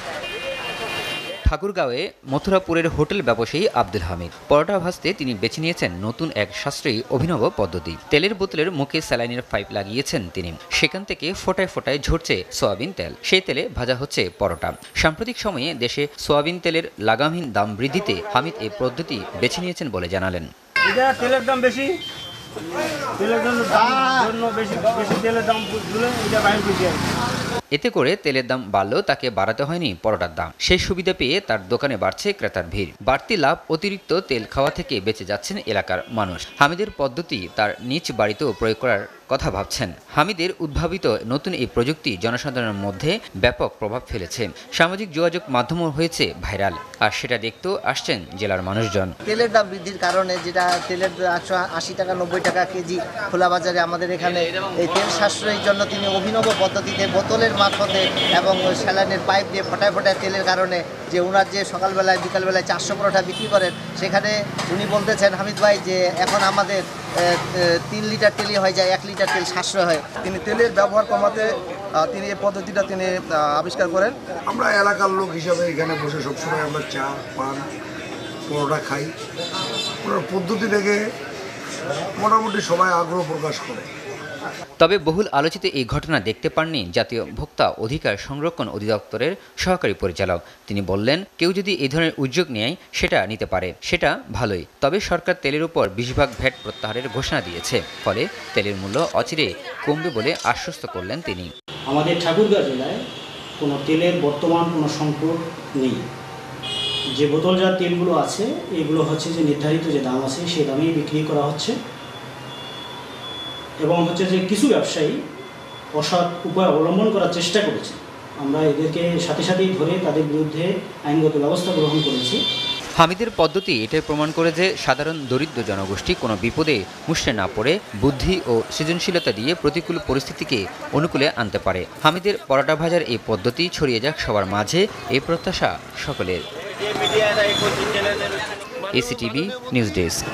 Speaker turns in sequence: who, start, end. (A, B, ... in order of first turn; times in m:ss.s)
0:01.5-0:20.5 A
0:20.9-0:22.0 B
0:23.2-0:27.0 B
0:27.7-0:49.1 A
0:49.3-1:10.2 C
1:10.2-1:11.4 D
1:12.0-1:14.1 C
1:12.1-1:14.1 D
1:14.5-1:17.6 E
1:18.5-1:19.1 E
1:20.0-1:21.0 E
1:22.2-1:23.8 E
1:24.8-1:41.5 A
1:41.9-1:43.0 F
1:43.6-1:46.0 F
1:47.2-1:51.7 F
1:53.9-1:55.1 F
1:56.0-2:02.4 F
2:03.0-2:16.4 A
2:18.9-2:20.2 A